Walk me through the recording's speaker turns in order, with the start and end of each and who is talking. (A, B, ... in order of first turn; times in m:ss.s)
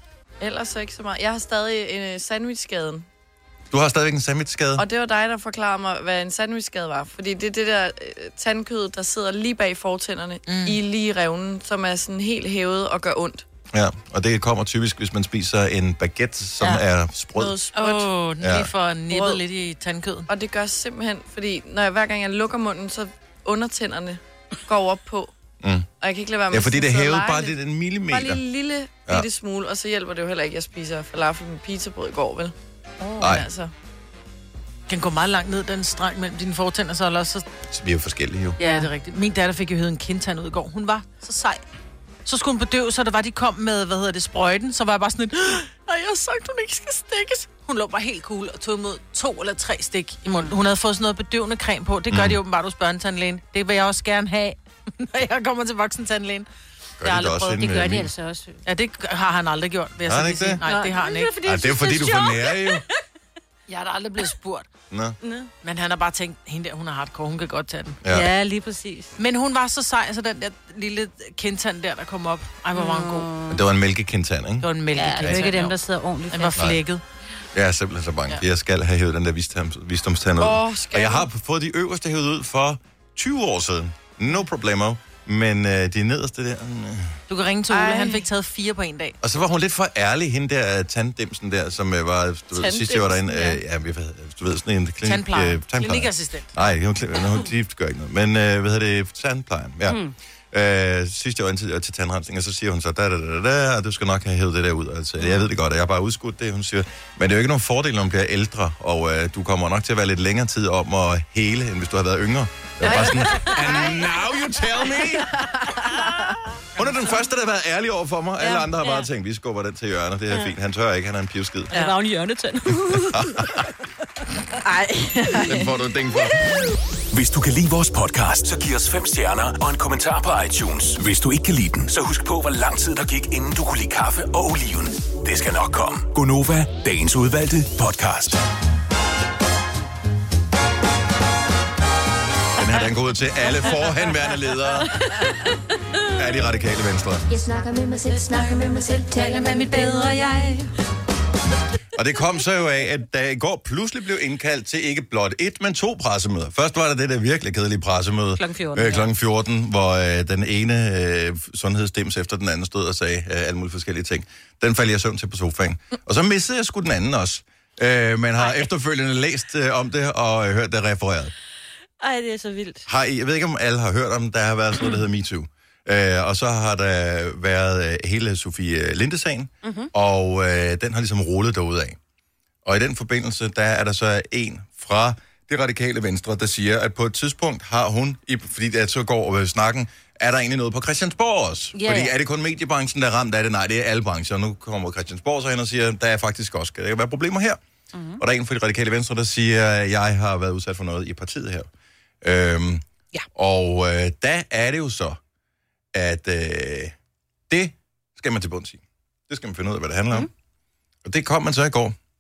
0:00.4-0:03.1 A
0:03.7-0:04.9 B
0:04.8-0:13.4 A
0:10.5-0:10.8 C
0:13.7-0:17.6 B
0:17.4-0:18.1 A
0:17.7-0:20.3 C
0:18.4-0:18.7 B
0:19.1-0:19.4 A
0:20.3-0:25.4 A
0:25.6-0:25.9 B
0:26.0-0:27.6 A
0:26.5-0:28.4 B
0:28.1-0:33.7 A
0:33.2-0:33.5 B
0:34.9-0:37.5 C
0:37.7-0:38.6 B
0:38.6-0:41.6 C
0:42.2-0:56.5 C
0:52.1-0:52.4 B
0:57.0-0:58.1 B
0:57.0-0:58.6 D
0:58.6-1:01.4 C
1:00.0-1:00.6 B
1:00.6-1:02.9 D
1:01.4-1:02.8 B
1:03.7-1:04.7 C
1:04.9-1:05.2 B
1:05.2-1:05.5 D
1:05.6-1:08.0 C
1:08.0-1:08.3 B
1:08.1-1:09.2 D
1:09.2-1:13.3 C
1:12.7-1:13.6 D
1:13.5-1:15.5 B
1:14.6-1:15.8 C
1:15.0-1:16.6 D
1:16.3-1:17.0 C
1:17.5-1:27.2 B
1:20.4-1:21.3 A
1:27.3-1:29.2 C
1:27.7-1:28.2 A
1:29.2-1:55.4 B
1:32.5-1:33.5 A
1:35.0-1:36.5 C
1:39.9-1:40.1 D
1:52.8-1:54.1 A
1:55.4-1:56.3 A
1:56.8-2:01.7 B
2:01.7-2:03.4 D
2:02.7-2:03.7 B
2:04.6-2:05.7 A
2:05.5-2:06.5 B
2:07.1-2:18.4 E
2:22.6-2:24.9 B
2:26.1-2:27.3 B
2:27.3-2:30.2 F
2:29.6-2:30.6 C
2:31.9-2:51.3 B
2:38.4-2:39.1 D
2:48.4-2:48.7 D
2:52.0-2:52.8 D
2:52.9-3:02.0 B
2:59.6-2:59.9 D
3:02.6-3:17.6 B
3:11.8-3:12.1 D
3:17.9-3:18.2 D
3:18.2-3:21.7 B
3:22.2-3:25.2 B
3:25.9-3:27.0 B
3:27.5-3:30.3 B
3:31.0-3:32.0 B